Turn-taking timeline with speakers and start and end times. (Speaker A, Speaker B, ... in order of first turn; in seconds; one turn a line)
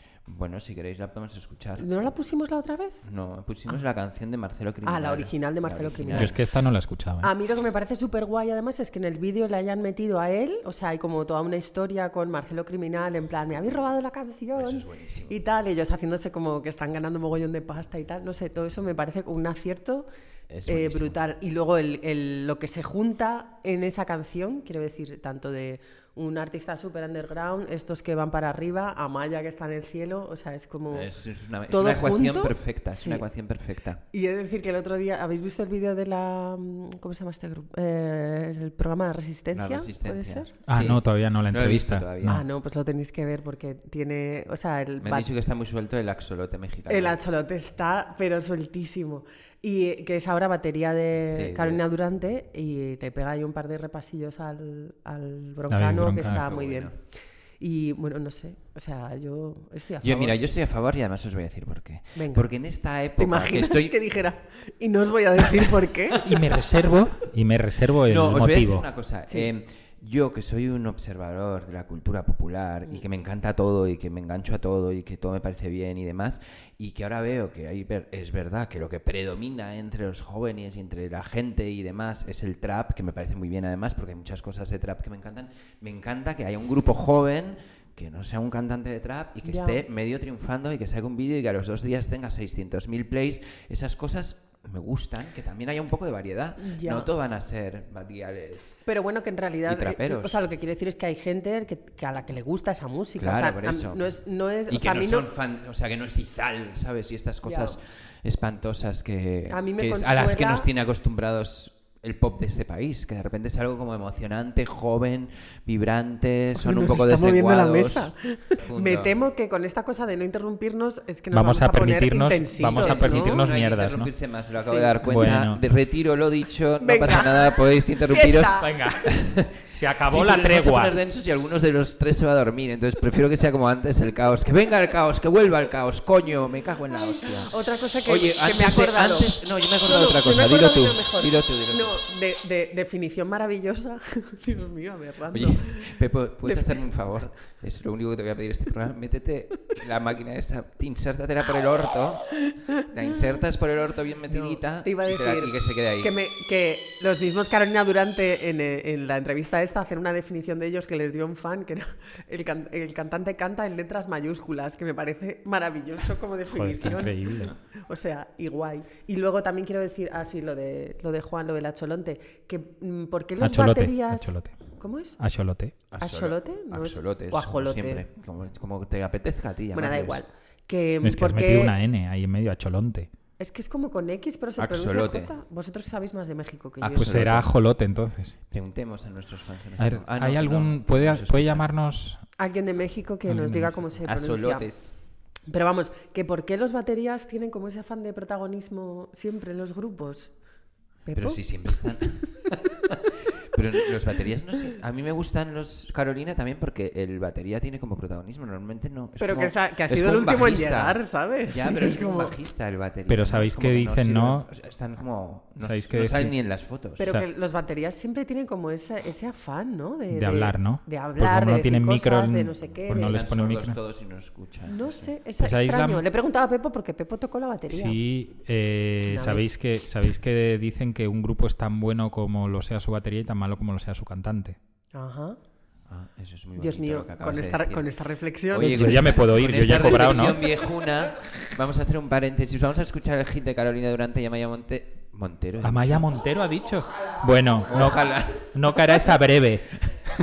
Speaker A: 0.2-2.1
Speaker B: 1.8-3.1
Speaker A: 3.0-6.4
Speaker B: 4.8-6.3
Speaker C: 6.2-7.3
Speaker B: 7.2-20.1
Speaker A: 14.5-15.4
Speaker A: 20.5-21.2
Speaker B: 20.7-31.1
Speaker A: 30.9-34.0
Speaker B: 31.7-33.2
Speaker B: 34.1-40.5
Speaker A: 39.5-42.4
Speaker C: 40.7-42.4
Speaker B: 42.2-45.3
Speaker A: 45.0-47.2
Speaker B: 46.9-56.9
Speaker A: 51.2-51.8
Speaker C: 55.7-56.4
Speaker A: 56.2-56.9
Speaker B: 57.6-60.4
Speaker A: 60.0-64.0
Speaker B: 62.1-62.5
Speaker B: 63.2-66.2
Speaker A: 65.6-66.4
Speaker C: 66.2-68.8
Speaker A: 68.0-98.8
Speaker B: 89.5-89.8
Speaker B: 96.6-97.1
Speaker B: 98.8-105.3
Speaker A: 99.7-100.4
Speaker A: 103.2-104.1
Speaker A: 104.7-119.2
Speaker B: 107.4-107.8
Speaker B: 109.5-110.7
Speaker B: 116.5-123.4
Speaker C: 121.3-124.1
Speaker A: 122.6-129.5
Speaker B: 124.6-124.9
Speaker C: 125.0-125.6
Speaker B: 126.8-128.7
Speaker C: 128.6-129.1
Speaker C: 129.7-131.0
Speaker A: 130.1-137.5
Speaker B: 136.9-146.7
Speaker A: 138.0-141.9
Speaker A: 145.3-156.1
Speaker B: 154.3-167.2
Speaker C: 166.5-167.5
Speaker B: 167.9-175.2
Speaker C: 173.4-174.6
Speaker C: 175.2-175.7
Speaker A: 175.9-180.2
Speaker B: 176.0-178.0
Speaker B: 179.7-181.7
Speaker C: 181.0-183.1
Speaker B: 183.4-187.3
Speaker A: 184.6-185.3
Speaker A: 186.8-187.5
Speaker C: 187.0-188.3
Speaker A: 188.5-191.7
Speaker C: 189.8-192.2
Speaker B: 192.4-194.7
Speaker C: 193.3-193.7
Speaker A: 194.0-194.9
Speaker B: 195.5-200.3
Speaker B: 201.0-201.4
Speaker A: 201.1-217.0
Speaker B: 209.2-212.3
Speaker C: 213.1-214.5
Speaker C: 215.6-216.3
Speaker B: 217.0-223.2
Speaker C: 220.1-223.8
Speaker A: 222.9-225.1
Speaker B: 224.7-228.0
Speaker C: 225.4-226.0
Speaker C: 227.7-234.6
Speaker B: 229.1-229.4
Speaker B: 234.9-235.4
Speaker A: 235.9-237.9
Speaker B: 236.6-239.2
Speaker A: 238.5-246.2
Speaker C: 238.6-240.4
Speaker C: 245.6-249.7
Speaker A: 247.7-248.5